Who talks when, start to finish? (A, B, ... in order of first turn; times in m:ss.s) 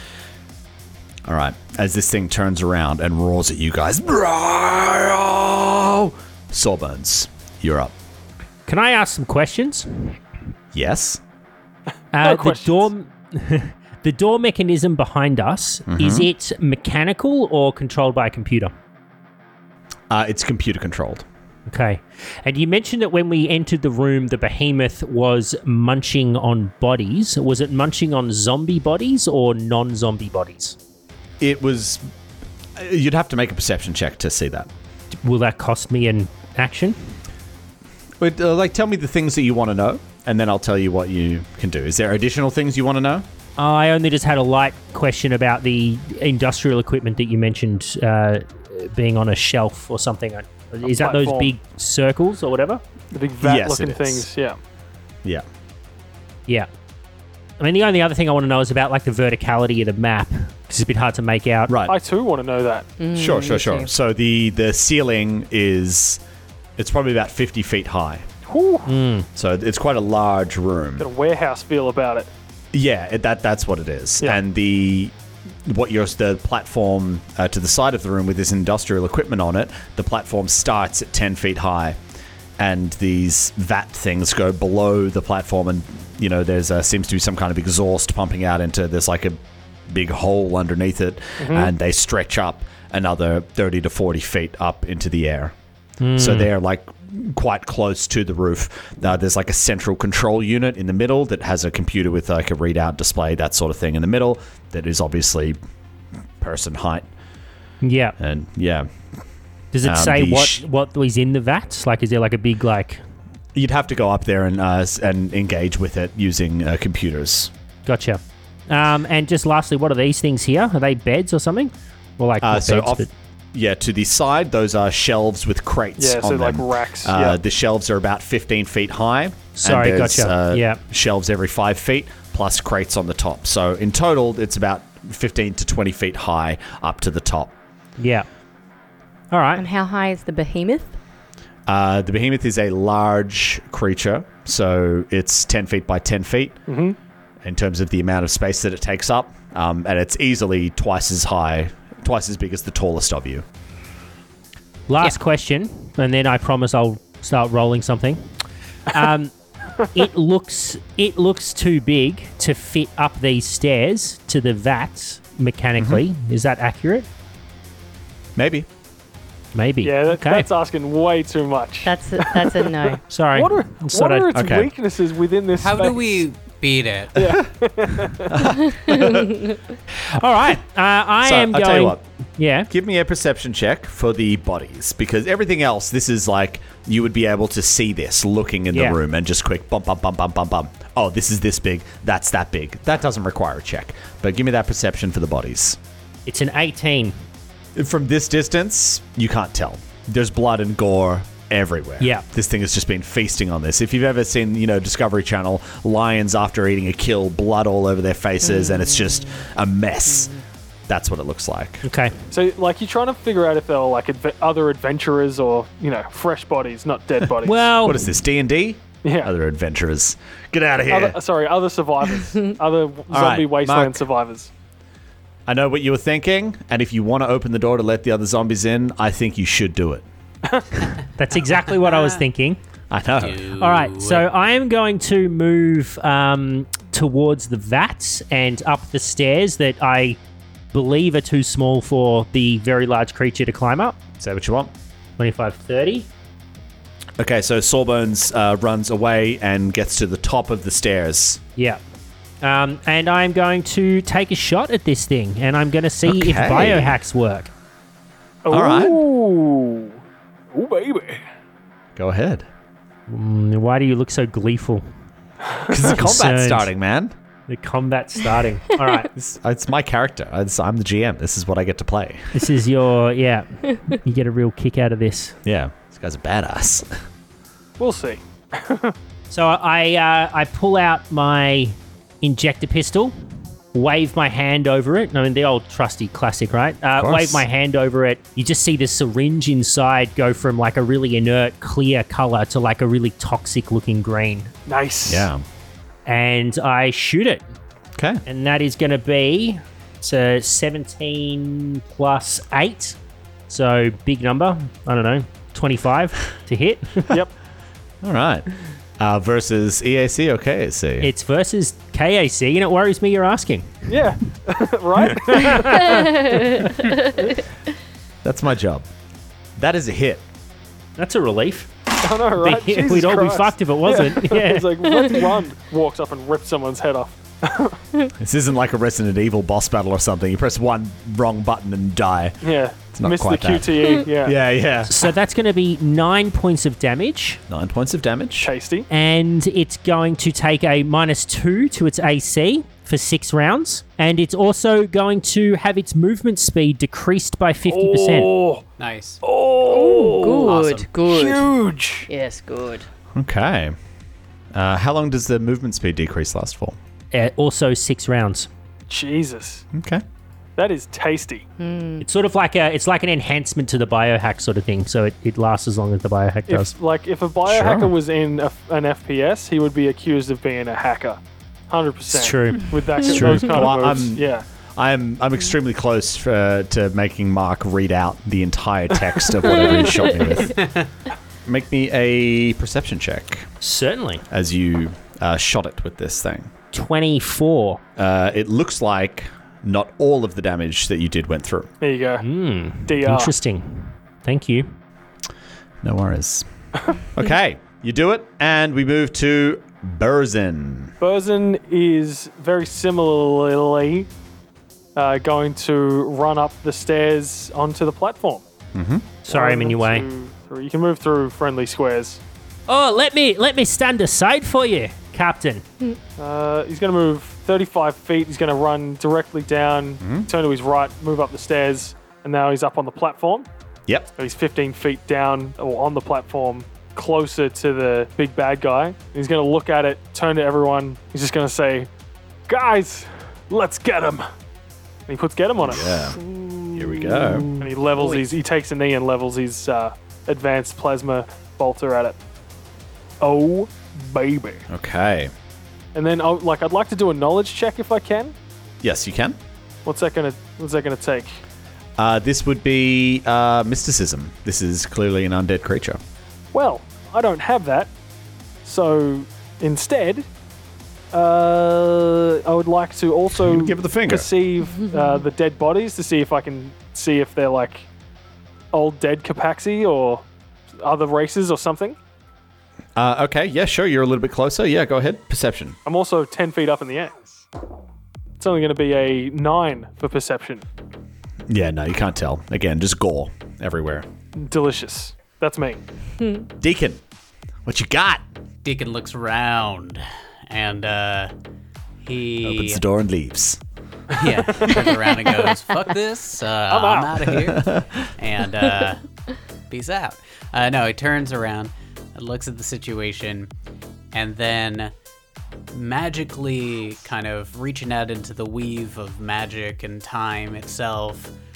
0:01.3-0:07.9 A
0:08.7-0:10.2 B
0:10.7-0:11.2 A
0:12.1-0:18.7 B
0:12.2-0:12.9 C
0:15.9-0:16.3 A
0:20.1-0:21.2 A
0:21.7-0:30.8 B
0:31.4-0:32.0 A
0:32.8-0:34.7 A
0:35.1-0:37.2 B
0:38.2-0:43.3 A
0:43.6-0:52.8 B
0:50.8-0:51.6 C
0:53.1-0:54.6 C
0:53.4-0:54.3 A
0:57.6-1:01.7 B
1:01.7-1:02.0 A
1:01.8-1:02.9 C
1:03.0-1:03.9 D
1:03.1-1:06.2 A
1:06.8-1:08.3 A
1:08.5-1:08.9 C
1:08.9-1:09.3 B
1:09.4-1:11.1 A
1:11.0-1:12.3 C
1:12.7-1:15.1 A
1:15.6-1:22.0 A
1:22.6-1:29.4 A
1:29.9-1:35.5 A
1:31.4-1:31.7 C
1:36.0-1:36.5 B
1:36.2-1:45.6 A
1:46.4-1:47.1 A
1:47.8-1:48.2 B
1:48.2-1:48.9 A
1:49.7-1:53.0 B
1:49.8-1:50.6 A
1:53.5-1:57.5 A
1:57.9-2:03.1 B
2:02.4-2:17.5 A
2:06.0-2:07.4 C
2:09.6-2:10.8 B
2:18.0-2:18.3 B
2:19.3-2:19.6 B
2:19.6-2:21.0 D
2:21.7-2:26.6 A
2:26.7-2:27.0 C
2:27.4-2:33.4 A
2:34.9-2:38.3 B
2:38.9-2:39.3 B
2:39.9-2:47.1 B
2:45.8-2:46.0 A
2:48.4-2:48.7 A
2:49.6-2:50.5 B
2:49.8-2:56.3 C
2:51.8-2:53.0 D
2:53.1-2:54.3 B
2:54.3-2:54.7 A
2:55.6-2:57.4 E
2:57.2-2:58.6 C
2:58.0-2:59.4 A
2:58.7-2:59.6 D
3:00.1-3:02.7 B
3:01.2-3:02.0 A
3:02.7-3:15.8 A
3:08.7-3:09.0 B
3:16.3-3:17.2 B
3:17.8-3:30.3 A
3:22.0-3:22.2 B
3:28.4-3:29.4 D
3:30.1-3:30.4 D
3:30.9-3:31.8 A
3:31.8-3:32.2 B
3:32.3-3:37.7 C
3:37.4-3:38.1 B
3:37.8-3:41.2 A
3:39.0-3:39.3 C
3:40.9-3:44.5 C
3:43.1-3:44.0 A
3:45.5-3:50.1 A
3:51.2-3:52.6 B
3:51.8-3:52.2 E
3:52.9-3:53.5 A
3:53.2-3:54.2 E
3:53.6-4:00.2 B
4:00.7-4:04.0 B
4:04.2-4:04.7 A
4:05.2-4:06.1 B
4:07.2-4:11.4 A
4:12.4-4:17.5 B
4:16.0-4:17.0 A
4:18.4-4:20.0 C
4:18.5-4:19.0 A
4:20.5-4:21.2 C
4:22.0-4:22.5 A
4:23.1-4:24.8 B
4:25.7-4:27.1 A
4:25.7-4:26.7 B
4:27.5-4:29.1 B
4:29.1-4:32.3 A
4:32.3-4:35.4 B
4:35.4-4:36.9 A
4:37.8-4:39.0 C
4:39.3-4:43.2 B
4:43.7-4:54.5 B
4:47.0-4:47.4 A
4:54.7-4:55.3 C
4:55.1-4:55.4 A
4:56.1-4:57.5 B
4:58.0-4:58.2 A
4:58.3-5:03.0 B
5:03.5-5:07.1 B
5:08.0-5:08.5 A
5:09.0-5:11.1 A
5:11.0-5:13.9 B
5:13.9-5:16.2 C
5:15.3-5:16.1 B
5:15.9-5:17.3 D
5:18.2-5:18.9 A
5:19.6-5:20.2 A
5:21.0-5:21.7 B
5:22.0-5:27.8 C
5:22.3-5:24.8 B
5:28.2-5:32.4 A
5:32.4-5:34.4 C
5:32.9-5:34.9 A
5:34.9-5:37.4 B
5:37.5-5:38.5 A
5:38.4-5:38.9 C
5:38.9-5:48.3 B
5:47.7-5:48.6 C
5:48.8-5:49.2 E
5:49.2-5:52.1 C
5:49.7-5:51.5 D
5:50.4-5:50.9 E
5:52.1-5:52.9 D
5:53.1-5:53.8 A
5:54.5-5:56.8 A
5:57.1-5:58.5 B
5:58.9-5:59.6 C
5:59.7-6:00.0 A
6:00.6-6:01.5 C
6:01.6-6:02.0 D
6:02.0-6:06.7 B
6:06.5-6:14.4 C
6:07.5-6:07.9 A
6:12.1-6:13.6 B
6:13.3-6:14.2 A
6:14.8-6:20.6 A
6:19.7-6:20.4 D
6:20.5-6:20.9 E
6:21.4-6:23.5 A
6:23.6-6:24.2 B
6:24.3-6:26.5 A
6:26.7-6:27.8 B
6:28.0-6:31.7 A
6:31.8-6:32.3 C
6:32.2-6:34.8 B
6:32.8-6:33.3 C
6:35.8-6:36.5 A
6:37.1-6:40.9 A
6:41.0-6:44.1 C
6:45.0-6:48.4 C
6:48.7-6:49.1 A
6:49.2-6:50.1 B
6:49.3-6:52.2 C
6:52.7-6:55.6 B
6:56.2-7:03.5 C
7:00.0-7:00.3 A
7:04.2-7:11.9 C
7:12.5-7:14.3 C
7:15.1-7:16.2 C
7:15.6-7:16.2 A
7:15.9-7:18.3 D
7:16.8-7:17.5 A
7:17.6-7:22.2 C
7:23.2-7:24.6 C
7:24.7-7:25.3 A
7:26.0-7:28.4 C
7:28.8-7:29.4 A
7:29.8-7:31.4 C
7:32.0-7:36.0 A
7:36.5-7:37.9 C
7:38.6-7:40.3 C
7:41.1-7:47.9 C
7:43.4-7:44.3 A
7:44.8-7:45.1 D
7:48.7-7:50.3 C
7:50.8-7:52.0 C
7:53.0-7:55.8 A
7:55.8-7:57.2 C
7:58.4-8:00.7 C
8:01.5-8:04.1 A
8:04.4-8:05.8 C
8:06.2-8:06.5 D
8:06.6-8:07.0 A
8:07.7-8:08.2 A
8:08.6-8:11.3 E
8:12.0-8:12.8 E
8:12.4-8:13.6 A
8:14.1-8:15.0 C
8:14.2-8:19.0 E
8:16.7-8:17.3 C
8:17.4-8:18.1 A
8:19.7-8:23.5 E
8:24.1-8:24.9 E
8:25.7-8:31.3 E